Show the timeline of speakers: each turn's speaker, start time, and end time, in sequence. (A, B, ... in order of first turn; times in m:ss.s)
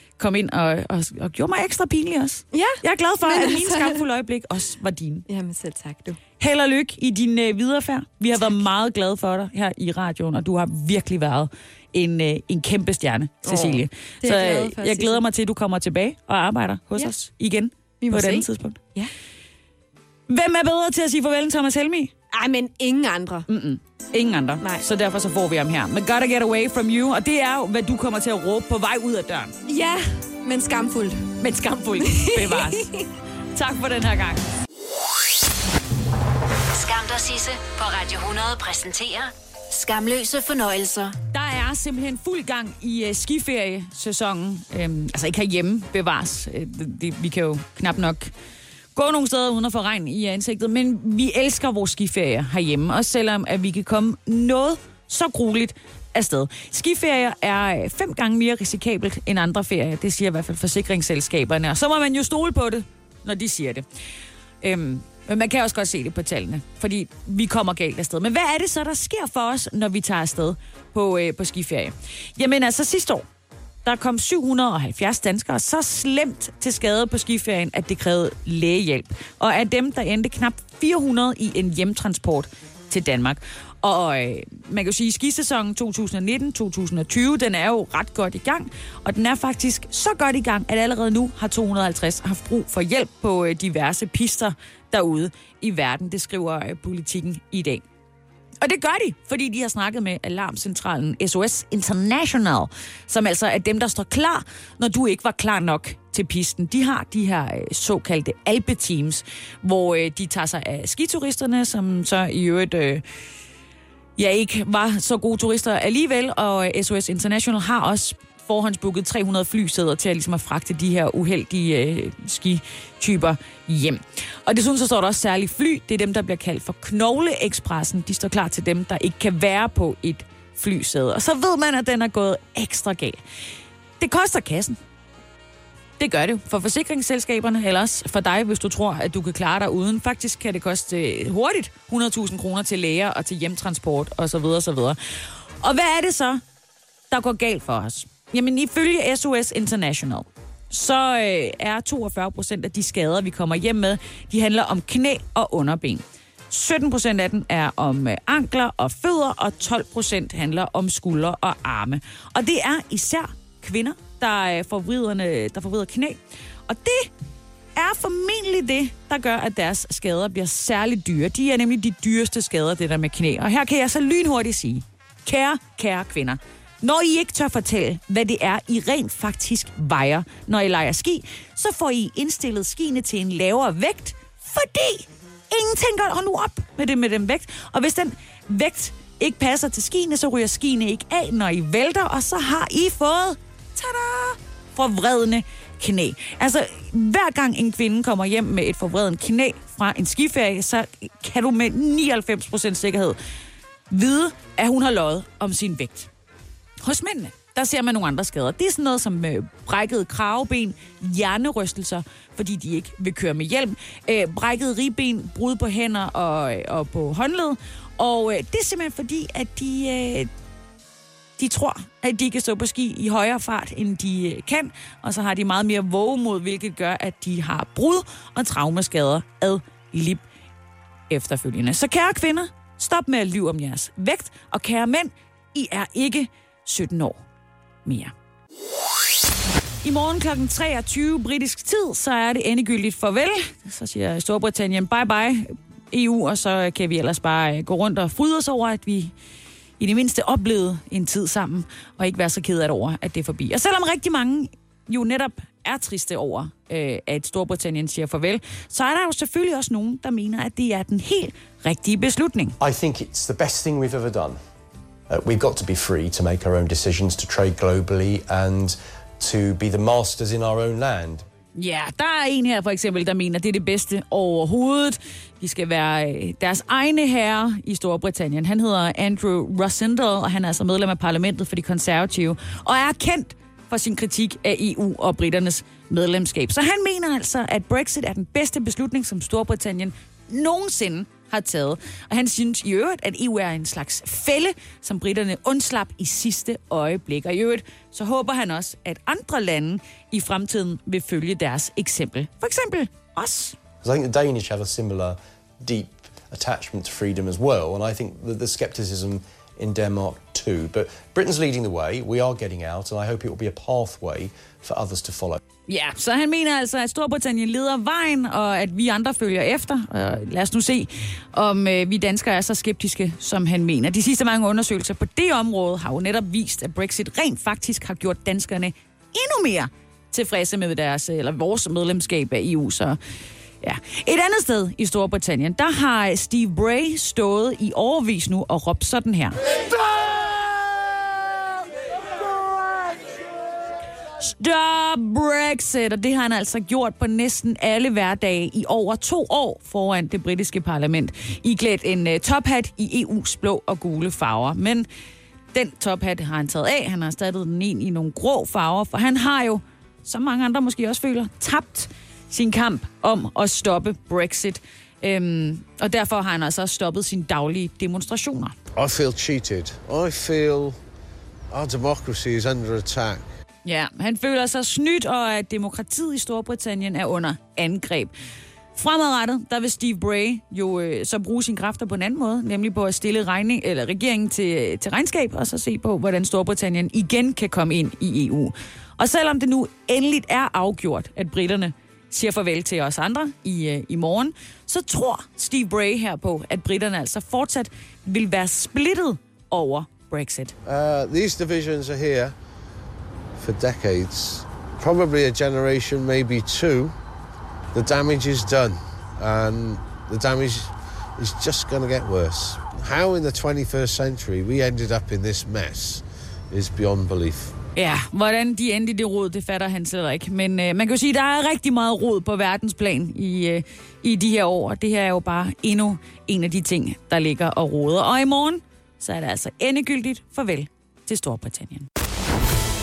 0:00.2-0:05.2 A
0:02.5-0:04.0 B
0:05.3-0:06.2 B
0:06.4-0:18.8 A
0:13.4-0:15.2 B
0:18.0-0:19.1 B
0:20.3-0:22.1 A
0:22.3-0:23.4 B
0:23.5-0:29.5 A
0:29.7-0:31.2 B
0:31.4-0:32.9 A
0:32.0-0:33.0 B
0:33.5-0:34.4 A
0:36.7-0:41.2 C
0:41.3-0:48.3 A
0:48.9-1:03.8 A
1:04.6-1:13.2 A
1:13.8-1:37.8 A
1:38.6-1:53.0 A
1:54.2-2:13.2 A
2:14.0-2:14.8 A
2:16.0-2:25.0 A
2:25.6-2:26.4 A
2:27.1-2:47.1 A
2:47.8-3:23.2 A
3:23.9-3:26.1 A
3:26.8-3:40.3 A
3:41.4-3:50.2 A
3:51.1-3:57.2 A
3:57.8-3:58.1 A
3:59.8-4:09.1 A
4:09.8-4:22.6 A
4:22.6-4:24.4 D
4:25.1-4:31.2 D
4:31.6-5:03.6 A
5:03.8-5:15.4 D
5:15.7-5:33.0 A
5:33.6-5:39.5 A
5:40.0-5:40.3 A
5:44.2-5:54.9 A
5:55.5-6:08.5 A
6:08.8-6:10.8 E
6:11.5-6:13.3 E
6:13.6-6:18.1 A
6:18.7-6:40.5 A
6:40.6-6:42.3 E
6:43.4-6:46.9 E
6:47.7-6:57.6 E
6:57.7-7:11.8 A